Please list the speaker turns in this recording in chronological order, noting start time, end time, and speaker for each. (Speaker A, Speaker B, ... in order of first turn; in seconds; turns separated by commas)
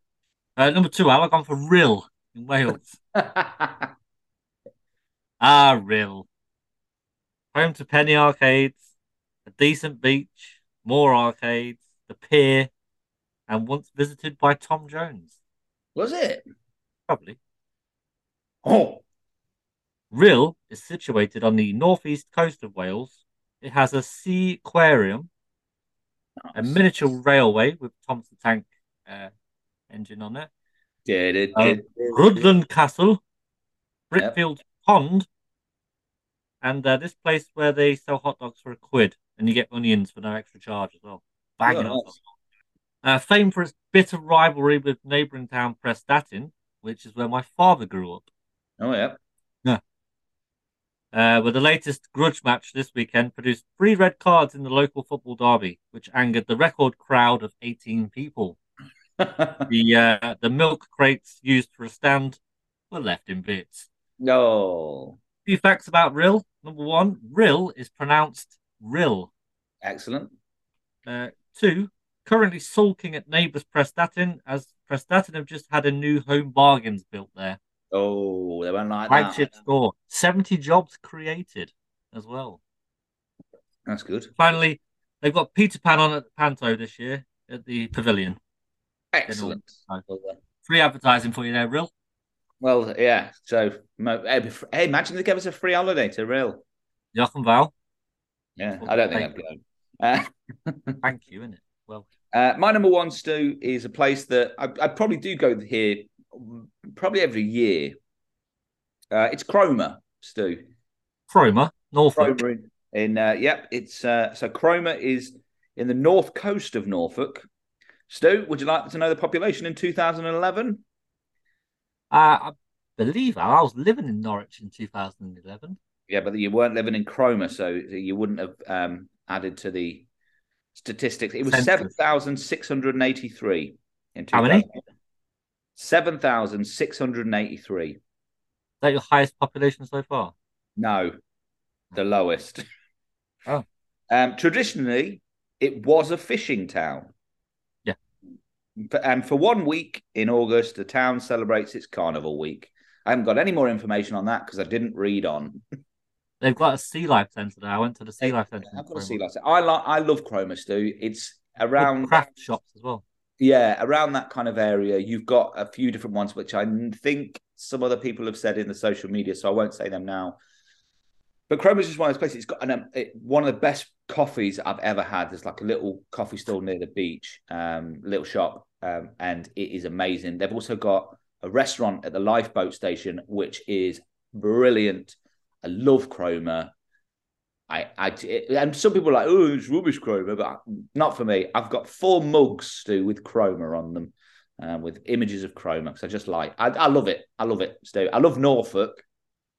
Speaker A: 0.6-3.0, Speaker B: 3.1-3.9, Speaker A: 5.4-6.3, Speaker A: 7.5-8.8, Speaker A: 9.5-12.7, Speaker A: 13.5-15.3, Speaker B: 15.9-16.4, Speaker A: 17.1-17.4, Speaker B: 18.6-19.0, Speaker A: 20.1-25.3, Speaker B: 26.5-26.8, Speaker A: 26.5-29.3, Speaker A: 29.9-30.5, Speaker B: 31.1-32.5, Speaker A: 31.6-33.2, Speaker A: 34.1-35.3, Speaker A: 36.6-42.1, Speaker B: 41.7-42.1, Speaker A: 43.0-48.3, Speaker B: 48.8-49.2, Speaker A: 51.1-58.6, Speaker B: 59.2-59.7, Speaker A: 59.7-62.4, Speaker A: 62.9-63.9, Speaker B: 64.2-65.2, Speaker A: 65.5-69.3, Speaker B: 69.8-70.3, Speaker A: 71.1-77.6, Speaker B: 77.9-79.5, Speaker A: 79.1-82.6, Speaker B: 83.9-84.3, Speaker A: 84.4-88.4, Speaker B: 89.1-90.4, Speaker A: 89.3-90.0, Speaker A: 90.6-91.9, Speaker B: 92.6-96.6, Speaker A: 97.1-97.7, Speaker B: 98.6-101.0, Speaker A: 98.8-99.3, Speaker A: 101.0-102.1, Speaker B: 102.3-108.0, Speaker B: 109.1-110.6, Speaker A: 111.3-112.4, Speaker B: 112.2-117.5, Speaker B: 118.1-120.8, Speaker A: 122.1-125.8, Speaker B: 126.1-130.1, Speaker B: 130.8-134.8, Speaker A: 131.5-131.9, Speaker A: 134.3-134.7, Speaker B: 135.8-138.0, Speaker A: 138.8-140.3, Speaker B: 140.8-141.2, Speaker B: 141.9-142.6, Speaker B: 144.1-147.1, Speaker B: 148.8-155.6, Speaker A: 156.4-159.2, Speaker B: 158.2-162.2, Speaker A: 161.8-163.0, Speaker B: 163.4-170.4, Speaker B: 171.5-186.7, Speaker B: 187.7-199.1